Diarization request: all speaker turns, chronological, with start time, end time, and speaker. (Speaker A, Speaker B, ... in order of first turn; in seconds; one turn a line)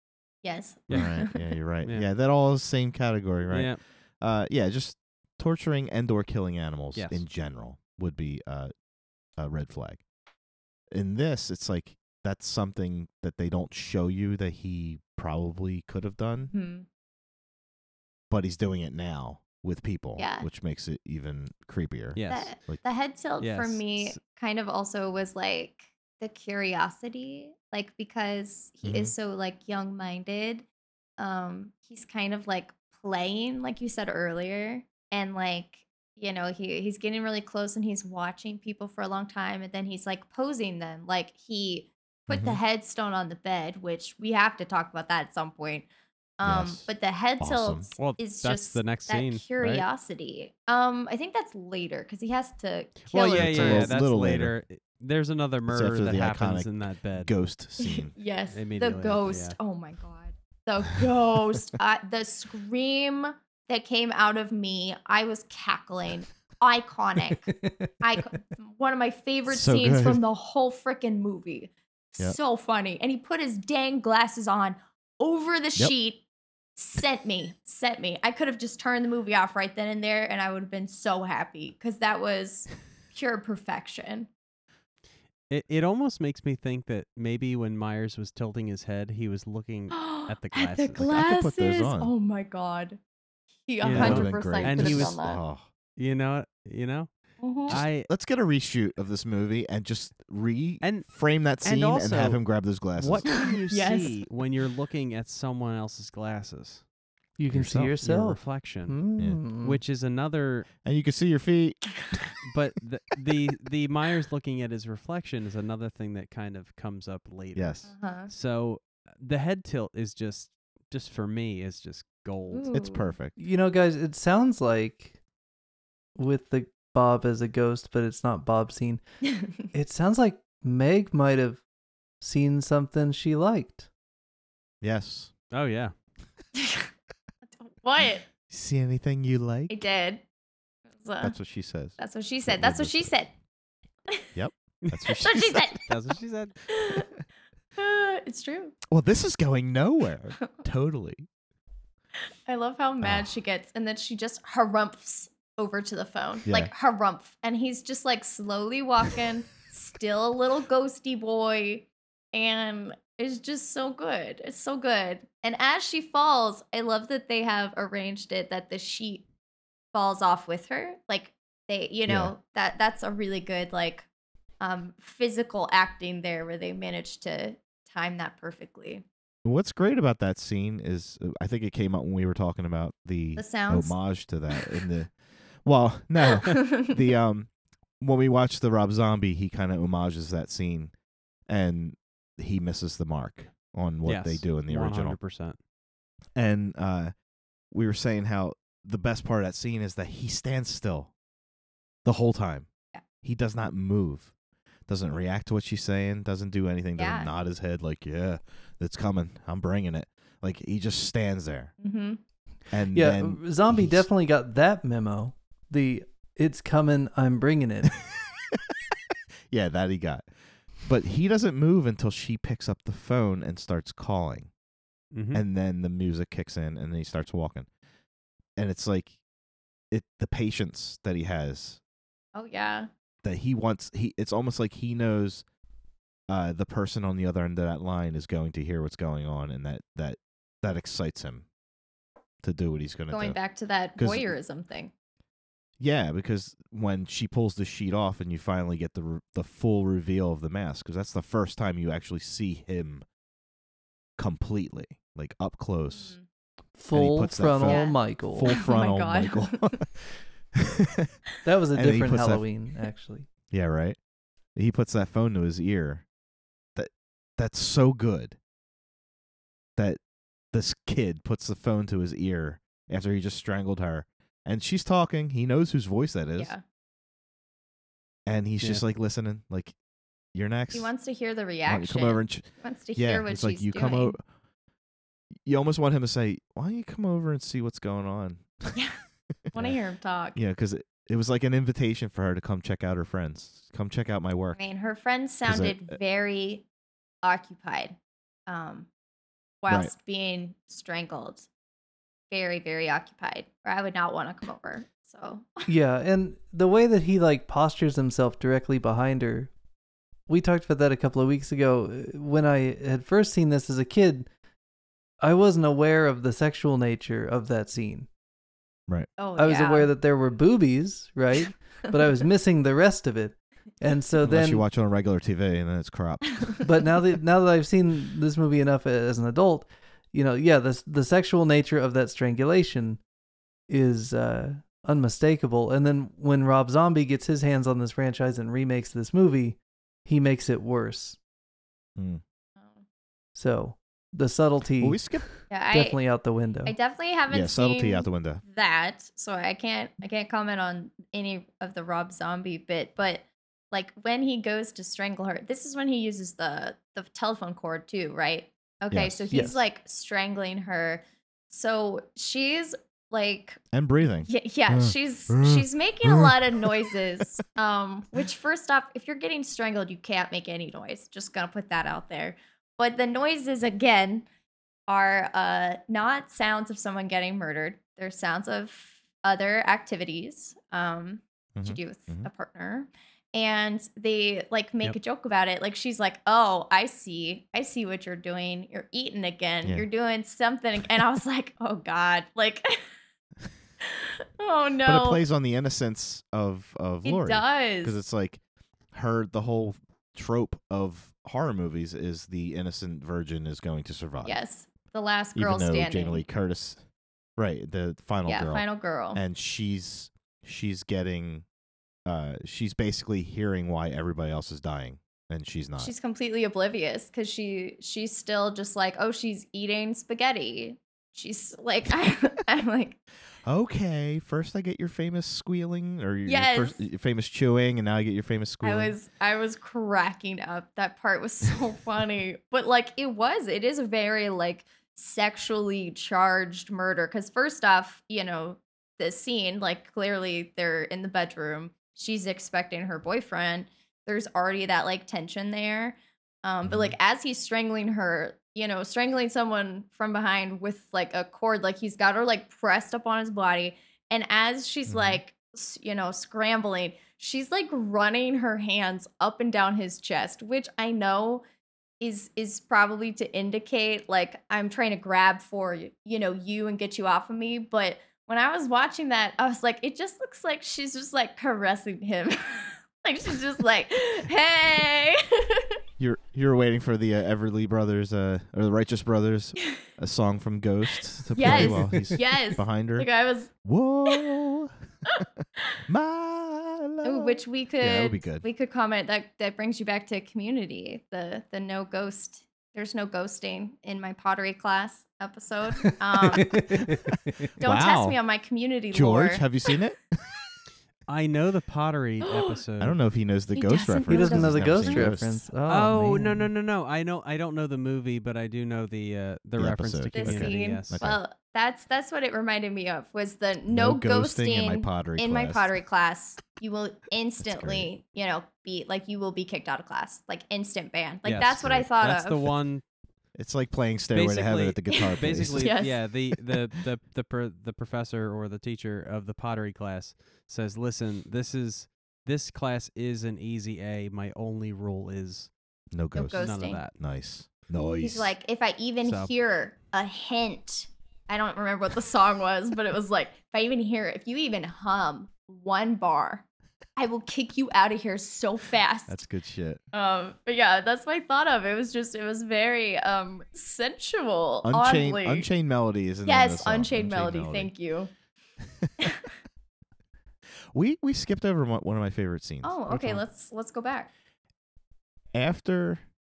Speaker A: 0.4-1.4
Speaker B: 0.9-8.7
Speaker C: 3.5-3.8
Speaker C: 6.9-7.2
Speaker B: 9.4-10.0
Speaker B: 10.9-16.5
Speaker A: 16.5-16.9
Speaker B: 18.3-22.8
Speaker A: 20.2-20.5
Speaker C: 22.1-22.5
Speaker A: 22.3-30.6
Speaker C: 23.4-24.2
Speaker B: 28.8-29.1
Speaker A: 31.2-45.9
Speaker B: 42.3-42.6
Speaker A: 46.4-54.0
Speaker B: 46.4-46.9
Speaker B: 47.4-47.9
Speaker C: 48.0-49.9
Speaker C: 53.1-57.3
Speaker B: 53.3-54.5
Speaker B: 55.7-58.1
Speaker A: 57.8-76.2
Speaker C: 58.5-59.6
Speaker D: 67.6-67.9
Speaker B: 69.5-70.2
Speaker A: 76.8-84.3
Speaker C: 85.5-91.1
Speaker A: 89.9-93.0
Speaker B: 91.0-92.1
Speaker A: 93.7-95.4
Speaker C: 93.8-95.2
Speaker B: 93.9-95.7
Speaker C: 96.0-98.1
Speaker A: 97.4-97.8
Speaker B: 97.7-103.3
Speaker C: 100.8-101.1
Speaker C: 101.6-102.4
Speaker C: 102.9-106.8
Speaker A: 103.4-104.2
Speaker D: 107.4-109.8
Speaker C: 107.5-109.0
Speaker C: 109.6-110.7
Speaker B: 110.8-111.8
Speaker C: 112.4-122.7
Speaker B: 117.5-117.9
Speaker A: 117.9-118.3
Speaker A: 122.5-123.1
Speaker B: 122.7-123.3
Speaker D: 123.4-125.2
Speaker D: 126.2-129.0
Speaker A: 129.3-129.7
Speaker D: 129.7-131.6
Speaker D: 132.2-133.9
Speaker B: 134.8-135.3
Speaker C: 135.5-135.9
Speaker A: 136.6-136.9
Speaker A: 137.6-138.2
Speaker B: 138.5-139.8
Speaker A: 139.7-140.2
Speaker A: 141.0-141.3
Speaker B: 141.2-143.1
Speaker A: 142.0-143.3
Speaker B: 144.3-145.8
Speaker C: 144.8-145.1
Speaker A: 145.2-145.8
Speaker C: 145.8-146.6
Speaker A: 146.7-147.1
Speaker A: 147.8-148.7
Speaker B: 148.9-151.3
Speaker A: 152.4-169.2
Speaker B: 153.0-153.3
Speaker A: 169.9-174.1
Speaker B: 172.1-172.3
Speaker A: 174.6-179.0
Speaker B: 179.4-185.1
Speaker A: 183.3-184.0
Speaker B: 185.6-190.9
Speaker A: 186.4-186.9
Speaker B: 191.5-195.2
Speaker C: 194.0-195.6
Speaker B: 196.3-197.1
Speaker B: 197.7-201.1
Speaker B: 202.0-202.7
Speaker B: 203.2-204.3
Speaker B: 204.9-211.7
Speaker A: 207.0-207.3
Speaker A: 211.8-212.2
Speaker B: 212.7-214.1
Speaker D: 212.9-217.9
Speaker B: 219.5-220.2
Speaker B: 220.8-224.5
Speaker C: 225.1-225.4
Speaker B: 225.3-227.7
Speaker B: 228.6-229.2
Speaker B: 229.9-231.8
Speaker A: 232.3-232.9
Speaker B: 233.2-235.4
Speaker B: 236.3-241.4
Speaker B: 242.4-243.4
Speaker A: 243.1-244.9
Speaker B: 244.0-244.3
Speaker B: 245.8-253.0
Speaker B: 254.2-256.1
Speaker A: 255.9-256.2
Speaker D: 256.8-258.5
Speaker B: 256.9-260.0
Speaker A: 257.6-259.8
Speaker B: 260.6-261.1
Speaker D: 261.4-263.3
Speaker B: 261.7-262.4
Speaker B: 263.5-264.0
Speaker B: 264.5-266.0
Speaker B: 266.8-268.4
Speaker B: 270.5-276.5
Speaker A: 276.4-276.6
Speaker B: 278.2-279.7
Speaker B: 280.3-280.9
Speaker A: 280.7-284.1
Speaker B: 281.6-284.2
Speaker B: 285.4-288.7
Speaker A: 288.7-289.0
Speaker B: 289.5-289.8
Speaker A: 289.5-290.4
Speaker B: 290.3-294.6
Speaker A: 294.5-296.6
Speaker B: 295.4-296.0
Speaker A: 297.2-298.9
Speaker A: 299.6-301.5
Speaker A: 302.3-305.7
Speaker D: 305.7-309.5
Speaker D: 310.3-314.3
Speaker D: 315.2-318.1
Speaker A: 319.2-319.9
Speaker D: 319.4-324.6
Speaker B: 324.2-326.6
Speaker D: 326.6-333.0
Speaker D: 333.7-341.2
Speaker B: 341.9-342.2
Speaker D: 343.3-346.7
Speaker B: 344.8-345.3
Speaker A: 345.5-346.0
Speaker A: 346.6-363.6
Speaker B: 347.3-348.4
Speaker B: 358.9-359.4
Speaker D: 359.3-359.6
Speaker B: 363.7-366.9
Speaker A: 364.3-374.2
Speaker A: 374.9-392.8
Speaker B: 381.6-382.3
Speaker A: 393.8-395.2
Speaker B: 394.8-398.4
Speaker A: 397.0-398.0
Speaker B: 398.9-404.4
Speaker A: 404.2-406.2
Speaker B: 405.4-406.8
Speaker B: 407.4-411.4
Speaker A: 408.2-409.2
Speaker B: 412.1-415.9
Speaker A: 415.8-423.0
Speaker B: 423.4-428.9
Speaker A: 426.2-426.8
Speaker A: 428.6-461.4
Speaker B: 446.6-446.9
Speaker B: 454.9-455.2
Speaker A: 462.0-475.8
Speaker B: 476.0-483.1
Speaker A: 481.3-483.5
Speaker D: 481.5-482.1
Speaker B: 483.6-485.2
Speaker B: 485.9-488.4
Speaker A: 487.0-496.8
Speaker D: 496.2-497.5
Speaker A: 497.6-499.4
Speaker B: 497.6-498.2
Speaker B: 498.9-500.2
Speaker C: 501.1-502.9
Speaker A: 502.2-502.6
Speaker B: 502.8-505.4
Speaker A: 503.5-505.2
Speaker D: 504.1-506.5
Speaker C: 505.7-511.0
Speaker B: 509.6-511.2
Speaker A: 510.1-522.5
Speaker B: 513.7-515.7
Speaker B: 517.4-517.9
Speaker C: 521.2-522.8
Speaker B: 521.6-521.8
Speaker B: 523.3-525.7
Speaker C: 524.1-535.5
Speaker A: 525.0-526.0
Speaker B: 535.9-538.3
Speaker A: 536.1-536.8
Speaker C: 536.3-536.9
Speaker A: 538.0-546.5
Speaker C: 539.0-539.3
Speaker A: 547.0-549.2
Speaker B: 549.1-549.8
Speaker A: 549.9-555.5
Speaker B: 554.6-557.7
Speaker A: 556.2-558.1
Speaker B: 558.8-559.1
Speaker A: 559.0-559.3
Speaker B: 560.7-563.2
Speaker A: 562.6-564.1
Speaker C: 562.9-563.1
Speaker B: 565.3-566.0